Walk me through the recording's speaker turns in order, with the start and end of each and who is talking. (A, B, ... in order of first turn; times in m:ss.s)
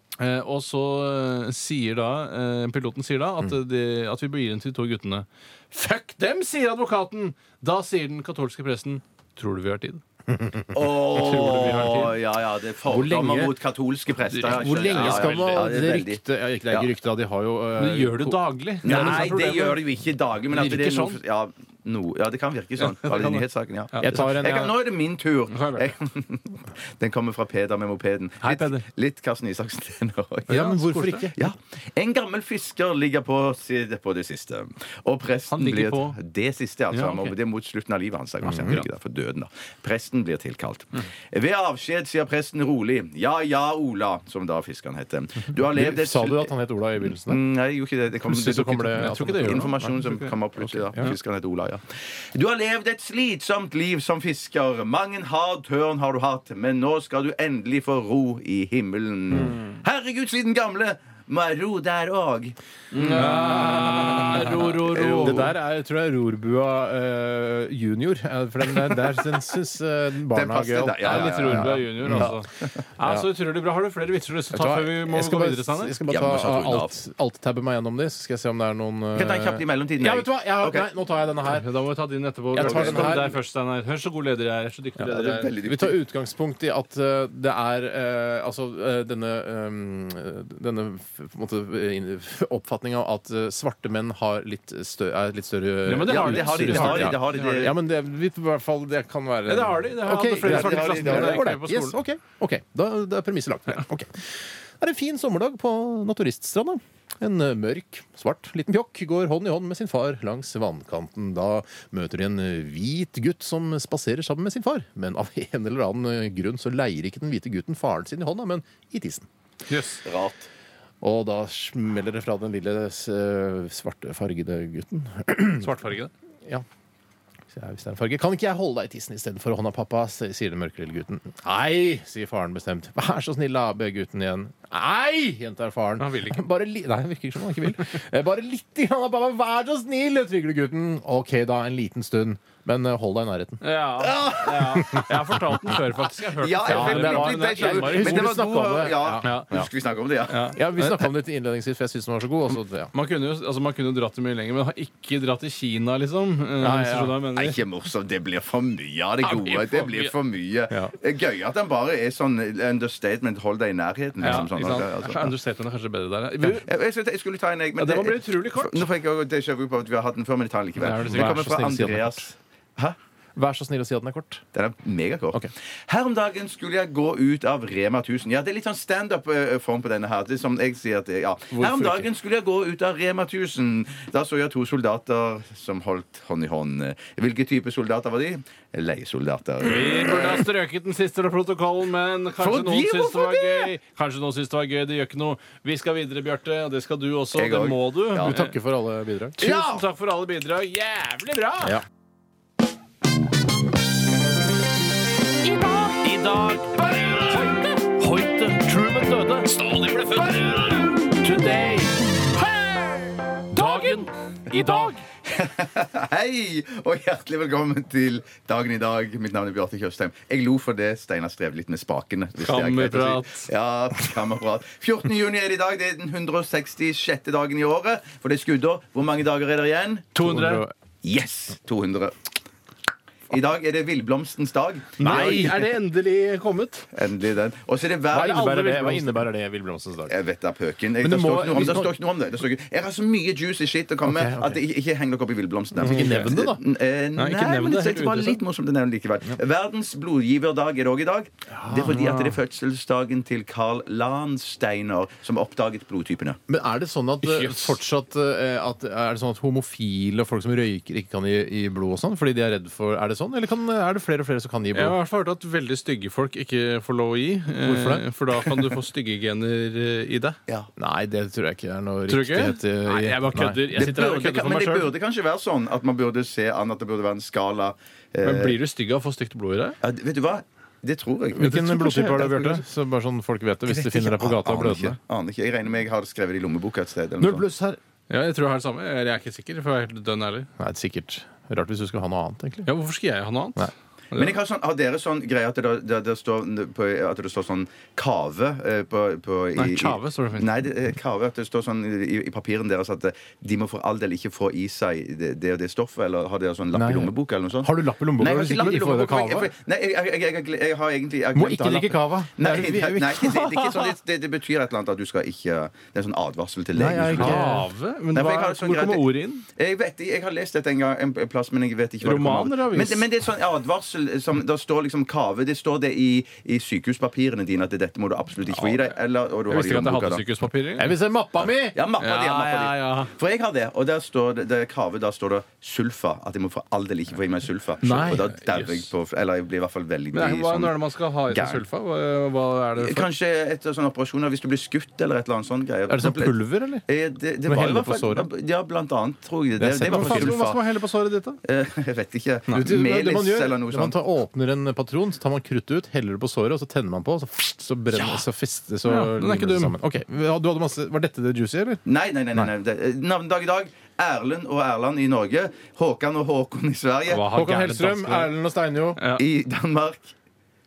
0:00.2-0:10.0 A
0:10.3-0:10.8 B
0:10.7-0:16.9 C
0:11.1-0:12.2 A
0:12.9-0:13.6 B
0:14.3-0:15.7 A
0:14.3-0:19.5 B
0:17.8-0:19.8 A
0:18.8-0:30.7 C
0:20.5-0:21.2 A
0:22.8-0:24.3 A
0:24.0-0:24.7 B
0:25.5-0:25.9 A
0:28.4-0:28.8 A
0:30.5-0:31.3 A
0:30.5-0:31.4 B
0:31.4-0:46.5 C
0:35.5-0:36.2 A
0:36.9-0:37.3 A
0:38.4-0:38.8 B
0:45.7-0:47.4 B
0:47.2-1:03.4 C
0:48.3-0:50.0 B
0:48.9-0:50.3 A
0:50.6-0:51.1 B
0:59.3-0:59.6 B
1:02.9-1:05.5 A
1:03.2-1:04.3 B
1:04.6-1:05.5 C
1:05.2-1:12.3 B
1:10.3-1:12.7 C
1:11.0-1:16.0 A
1:13.0-1:13.3 B
1:14.5-1:21.7 B
1:16.1-1:17.0 C
1:19.2-1:20.9 C
1:21.5-1:25.5 A
1:22.5-1:23.4 B
1:22.6-1:23.3 C
1:25.1-1:26.0 C
1:25.6-1:59.3 B
1:35.9-1:37.7 A
1:36.0-1:37.8 C
1:39.5-1:42.0 A
1:40.3-1:41.5 C
1:59.7-2:00.0 A
2:00.0-2:00.5 C
2:01.0-2:05.8 B
2:05.6-2:06.1 A
2:07.5-2:23.6 B
2:16.0-2:16.4 A
2:23.6-2:28.3 A
2:24.0-2:25.1 C
2:24.8-2:25.7 B
2:26.4-2:30.5 C
2:26.6-2:29.7 B
2:29.2-2:29.5 A
2:30.3-2:31.0 A
2:30.5-2:32.9 B
2:32.9-2:37.6 A
2:36.6-2:37.2 B
2:37.4-2:45.3 C
2:39.2-2:40.1 A
2:44.2-2:46.7 A
2:46.6-2:53.0 C
2:47.8-2:48.8 A
2:50.8-2:52.3 B
2:50.8-2:51.5 A
2:53.4-2:54.4 B
2:54.5-3:10.4 C
3:01.5-3:02.1 B
3:09.6-3:18.5 A
3:12.4-3:13.7 C
3:17.3-3:18.4 C
3:18.2-3:19.4 B
3:19.4-3:21.8 A
3:19.4-3:19.8 C
3:25.4-3:26.0 D
3:26.0-3:32.1 A
3:32.5-3:32.8 D
3:33.5-3:34.9 D
3:33.5-3:35.0 A
3:35.3-3:50.1 C
3:42.4-3:43.5 A
3:50.2-3:50.7 A
3:50.2-3:50.7 B
3:51.0-3:52.3 C
3:53.3-3:55.5 C
3:55.0-3:56.9 A
3:55.0-3:55.7 B
3:56.9-3:58.8 C
3:58.1-4:00.1 B
3:58.4-3:59.1 A
4:00.1-4:16.4 C
4:01.0-4:01.9 B
4:04.0-4:04.6 B
4:05.8-4:06.6 B
4:05.9-4:06.4 A
4:07.2-4:08.4 A
4:11.5-4:12.4 B
4:16.5-4:25.0 B
4:17.2-4:17.8 A
4:24.7-4:30.4 A
4:27.6-4:28.0 B
4:30.8-4:33.7 B
4:32.1-4:34.9 A
4:33.7-4:38.6 C
4:38.2-4:39.8 A
4:39.8-4:41.6 C
4:41.4-4:45.0 B
4:41.4-4:42.6 A
4:43.7-4:47.5 C
4:47.2-4:47.7 B
4:47.5-4:50.5 A
4:50.6-4:52.7 B
4:52.7-4:54.4 A
4:54.1-5:17.4 C
4:59.6-5:00.5 A
5:06.7-5:09.5 B
5:11.3-5:13.7 B
5:16.7-5:17.7 B
5:17.2-5:19.4 A
5:18.1-5:30.2 C
5:22.0-5:23.1 A
5:29.5-5:30.9 A
5:30.8-5:31.8 B
5:31.6-5:40.8 C
5:32.0-5:33.1 A
5:37.8-5:38.4 B
5:38.5-5:38.8 A
5:40.1-5:43.1 A
5:41.3-5:41.6 C
5:42.8-5:50.6 C
5:45.9-5:46.8 B
5:47.5-5:48.3 B
5:49.6-5:50.4 B
5:49.8-5:51.4 A
5:51.4-5:54.0 C
5:52.5-6:01.8 B
5:58.8-5:59.8 A
6:01.8-6:07.3 C
6:07.1-6:08.3 A
6:07.2-6:09.0 B
6:09.0-6:09.2 A
6:09.2-6:10.1 C